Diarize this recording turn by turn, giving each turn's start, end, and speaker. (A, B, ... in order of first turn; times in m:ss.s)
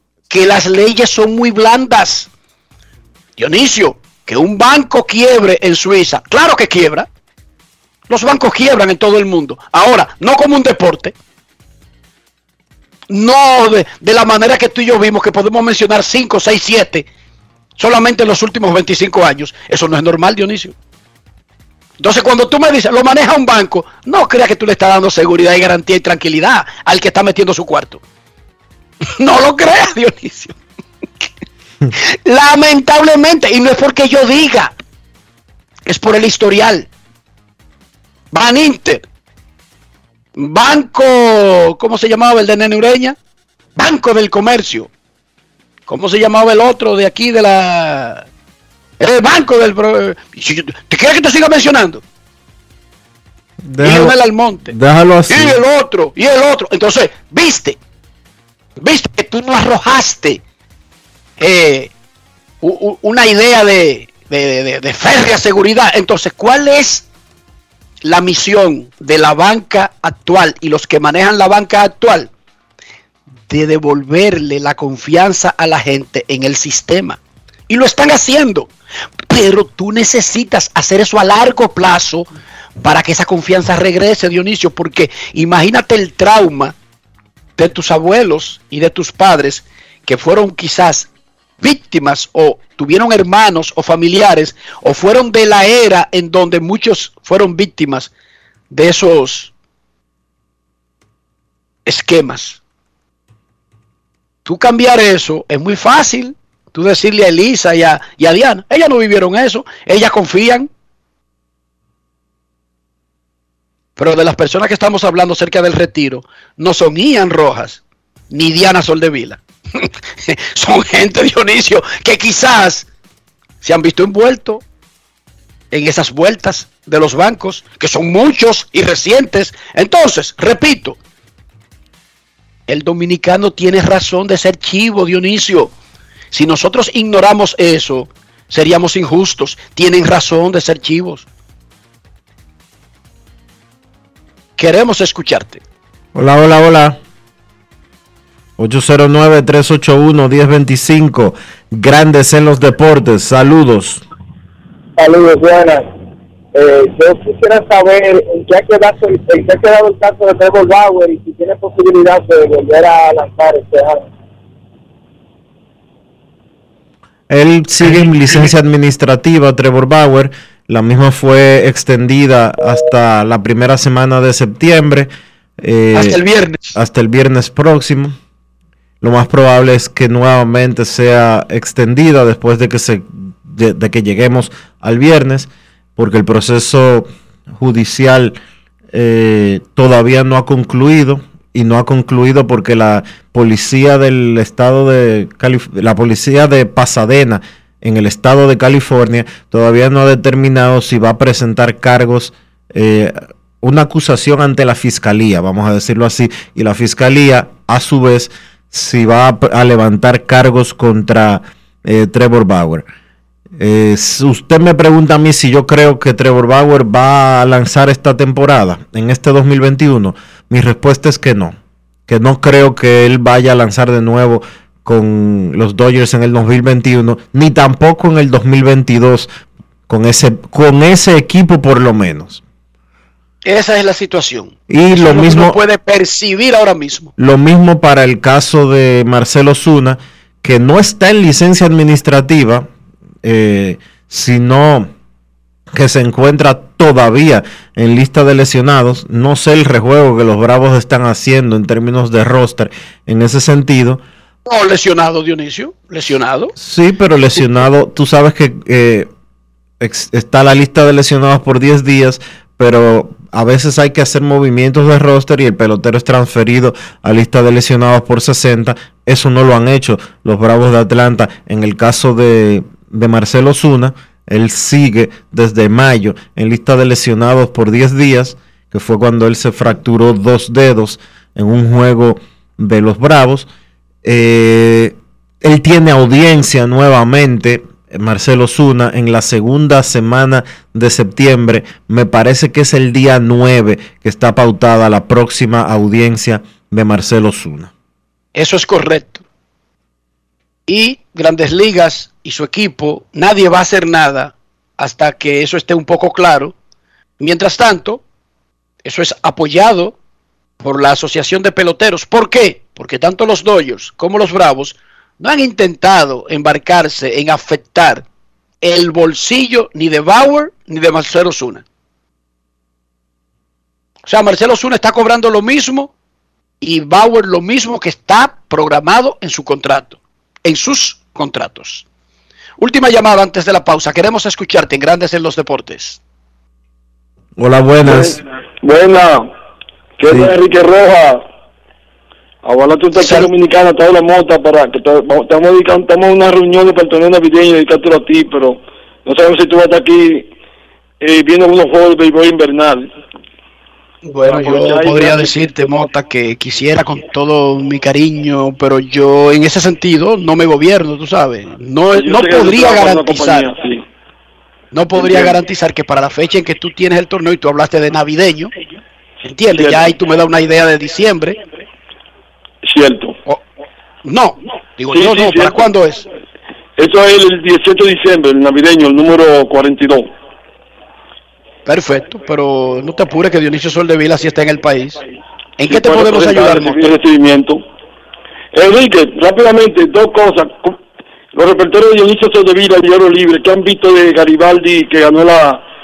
0:00.3-0:02.3 A
0:03.4-0:07.1 A
0:08.1-0:11.1 A
0:13.1-0:17.1 A
0:17.8-0:20.8 A
0:22.0-0:28.0 A
0:29.2-0:30.6 A
0:32.2-0:34.7 A
0:35.9-0:36.9 A
0:38.3-0:39.0 A
0:40.4-0:43.2 A
0:43.8-0:44.9 A
0:45.9-0:48.3 A
0:49.0-0:52.0 A
0:53.6-0:54.2 B
0:53.8-0:54.7 A
0:54.7-0:55.6 B
0:55.3-0:57.8 A
0:58.8-1:00.4 A
1:01.4-1:01.9 A
1:02.6-1:07.1 A
1:08.0-1:12.3 A
1:13.5-1:17.2 A
1:17.7-1:18.7 A
1:19.3-1:22.3 A
1:22.8-1:26.8 A
1:27.6-1:31.1 A
1:31.6-1:38.1 A
1:38.7-1:39.5 A
1:41.9-1:42.6 A
1:44.5-1:50.7 A
1:54.0-2:02.9 A
2:03.6-2:04.6 A
2:05.7-2:11.0 A
2:12.7-2:15.7 A
2:16.3-2:21.2 A
2:24.6-2:25.6 A
2:26.2-2:27.0 B
2:28.6-2:34.0 B
2:35.0-2:35.9 C
2:36.5-2:44.1 C
2:47.3-2:56.2 B
2:55.9-2:56.7 A
2:56.8-2:58.2 B
2:59.0-3:08.4 B
3:08.9-3:32.9 B
3:33.6-3:41.6 B
3:42.1-3:49.3 B
3:49.9-3:52.4 B
3:53.4-3:57.1 A
3:54.7-3:55.6 B
3:57.2-4:02.7 B
4:03.2-4:04.9 B
4:05.7-4:14.0 B
4:14.5-4:16.5 A
4:16.6-4:19.1 B
4:19.8-4:43.5 B
4:44.0-4:57.7 B
4:58.4-4:59.2 A
5:00.7-5:06.5 A
5:07.2-5:08.0 A
5:08.8-5:10.0 A
5:10.6-5:18.0 A
5:18.6-5:21.6 A
5:24.1-5:25.9 A
5:26.6-5:31.8 A
5:32.6-5:36.0 A
5:37.4-5:38.2 B
5:37.8-5:39.3 D
5:40.0-5:41.2 D
5:40.1-5:40.3 B
5:42.4-5:50.3 D
5:42.9-5:43.3 A
5:51.0-5:52.9 D
5:54.1-6:03.5 A
5:54.2-5:55.7 D
6:01.9-6:03.8 D
6:04.7-6:08.5 A
6:05.0-6:05.3 D
6:09.3-6:11.4 A
6:09.5-6:10.0 D
6:12.6-6:13.2 D
6:14.0-6:16.0 A
6:14.9-6:15.6 D
6:16.8-6:20.1 D
6:21.7-6:25.0 A
6:25.6-6:27.0 A
6:25.7-6:27.6 D
6:28.5-6:30.8 D
6:31.3-6:35.6 D